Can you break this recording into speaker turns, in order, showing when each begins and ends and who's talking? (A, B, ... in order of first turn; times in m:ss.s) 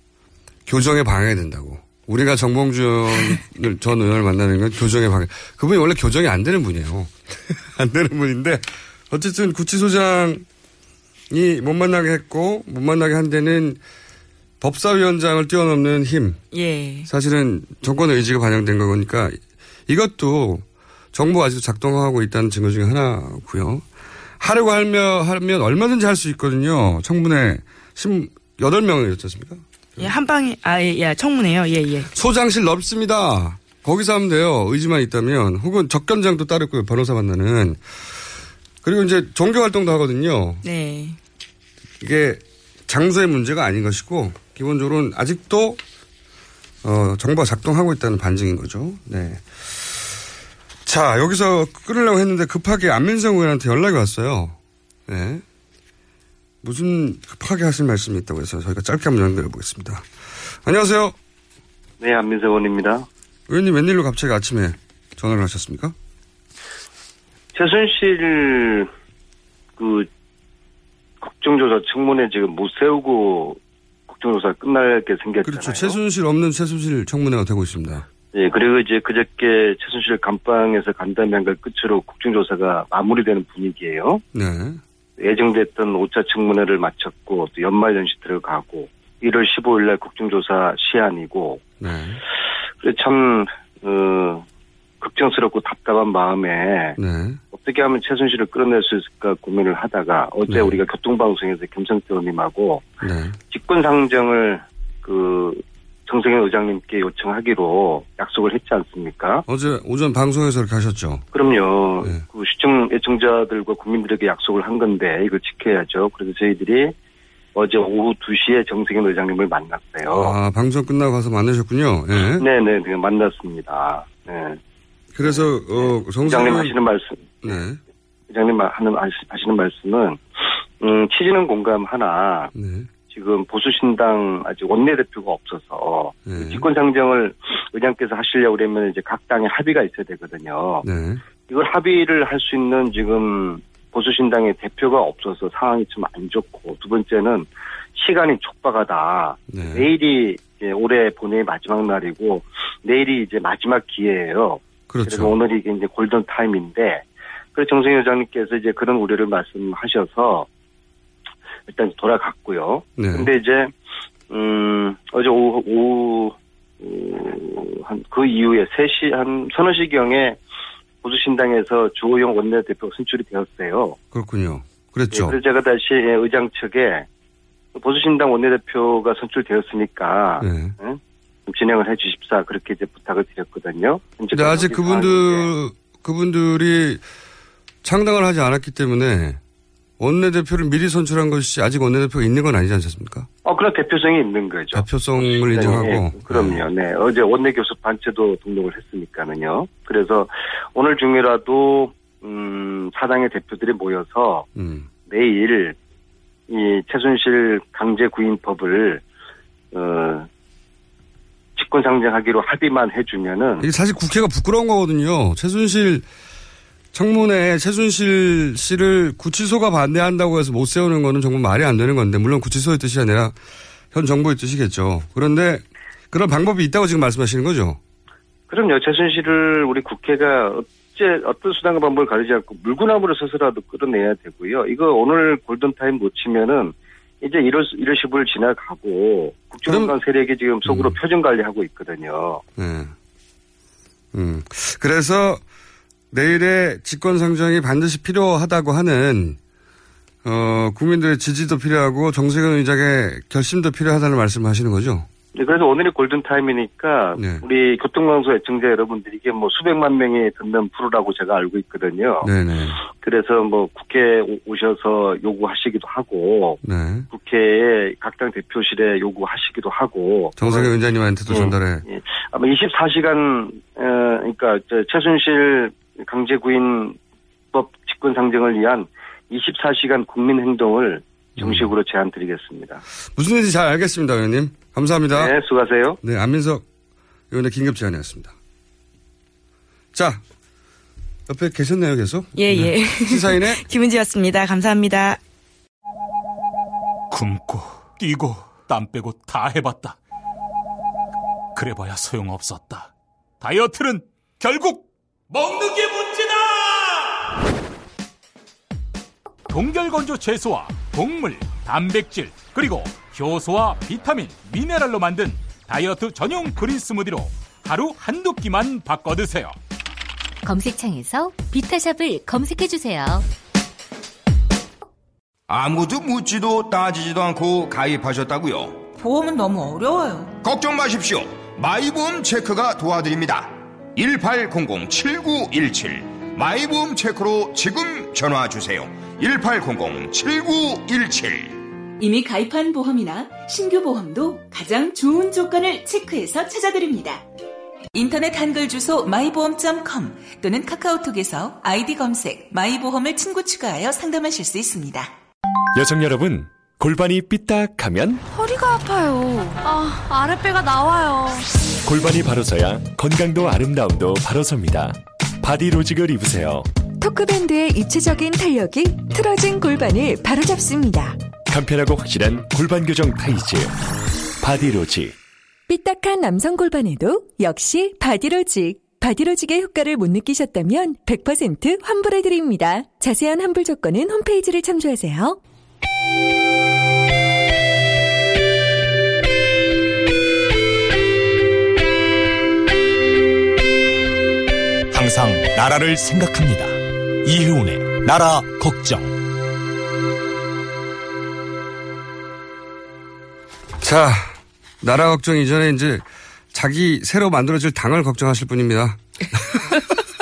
0:00.7-0:10.4 A
0:11.3-0:13.8 A
0:14.6-0:16.4 A
0:16.5-0:17.1 B
0:17.1-0:23.8 A
0:24.4-0:30.1 A
0:30.0-0:32.1 B
0:32.1-0:37.8 A
0:38.8-0:40.6 A
0:40.6-0:41.2 B
0:42.0-0:45.8 A
0:46.8-0:50.0 A
0:50.8-0:55.4 A
0:56.6-1:00.1 A
1:00.6-1:01.2 A
1:02.0-1:03.1 C
1:03.5-1:06.0 A
1:07.5-1:08.9 C
1:09.8-1:10.1 C
1:11.2-1:16.0 C
1:15.4-1:18.1 A
1:18.3-1:24.2 C
1:24.3-1:24.8 A
1:25.2-1:31.7 C
1:31.8-1:32.2 A
1:32.8-1:34.4 C
1:35.0-1:37.0 C
1:37.0-1:37.4 A
1:37.5-1:42.8 C
1:40.5-1:40.8 A
1:43.0-1:43.4 A
1:43.5-1:49.4 C
1:49.5-1:51.2 A
1:51.3-1:57.0 C
1:57.6-2:00.3 C
2:00.1-2:02.5 A
2:02.4-2:04.6 C
2:05.2-2:06.8 A
2:06.2-2:07.4 C
2:07.4-2:07.8 A
2:08.3-2:12.5 C
2:12.5-2:12.9 A
2:13.1-2:20.8 C
2:16.3-2:16.7 A
2:20.8-2:21.2 A
2:21.5-2:40.5 C
2:29.5-2:29.9 A
2:34.9-2:35.3 A
2:41.7-2:43.7 C
2:43.0-2:43.3 A
2:44.3-2:50.4 C
2:51.0-2:54.0 C
2:54.1-2:55.4 A
2:55.1-2:57.1 C
2:57.8-3:05.5 C
3:00.4-3:00.8 A
3:04.3-3:07.0 A
3:07.8-3:09.4 A
3:10.0-3:13.3 A
3:13.4-3:24.5 C
3:14.7-3:16.6 A
3:24.6-3:24.9 A
3:25.1-3:25.8 C
3:26.5-3:29.0 C
3:29.7-3:30.3 C
3:31.6-3:33.7 C
3:33.6-3:36.1 A
3:36.9-3:43.4 A
3:43.9-3:47.8 A
3:48.5-4:02.4 C
3:59.7-4:00.0 A
4:00.7-4:01.0 A
4:02.6-4:02.9 A
4:04.1-4:05.4 A
4:06.1-4:09.4 A
4:10.2-4:15.1 A
4:15.4-4:22.3 C
4:17.2-4:17.4 A
4:22.2-4:22.8 A
4:22.9-4:26.6 C
4:26.6-4:27.1 A
4:27.1-4:30.7 C
4:30.4-4:31.8 A
4:31.3-4:37.0 C
4:37.5-4:42.8 C
4:41.4-4:41.7 A
4:43.2-4:45.4 A
4:45.1-4:46.0 C
4:46.0-4:46.6 A
4:47.3-4:48.4 A
4:49.9-4:50.2 A
4:51.3-4:53.6 A
4:52.4-4:55.2 B
4:57.1-5:00.0 D
5:01.6-5:07.0 D
5:09.5-5:19.6 D
5:20.4-5:23.2 E
5:25.5-5:28.8 F
5:29.0-5:30.3 G
5:30.4-5:41.6 F
5:42.0-5:47.2 G
5:47.9-5:55.1 G
5:55.7-5:58.2 H
5:58.3-6:01.4 I
6:01.8-6:06.7 H
6:07.0-6:11.2 J
6:11.5-6:13.8 H
6:14.4-6:15.1 H
6:15.7-6:25.4 J
6:34.9-6:39.1 K
6:43.8-6:49.8 A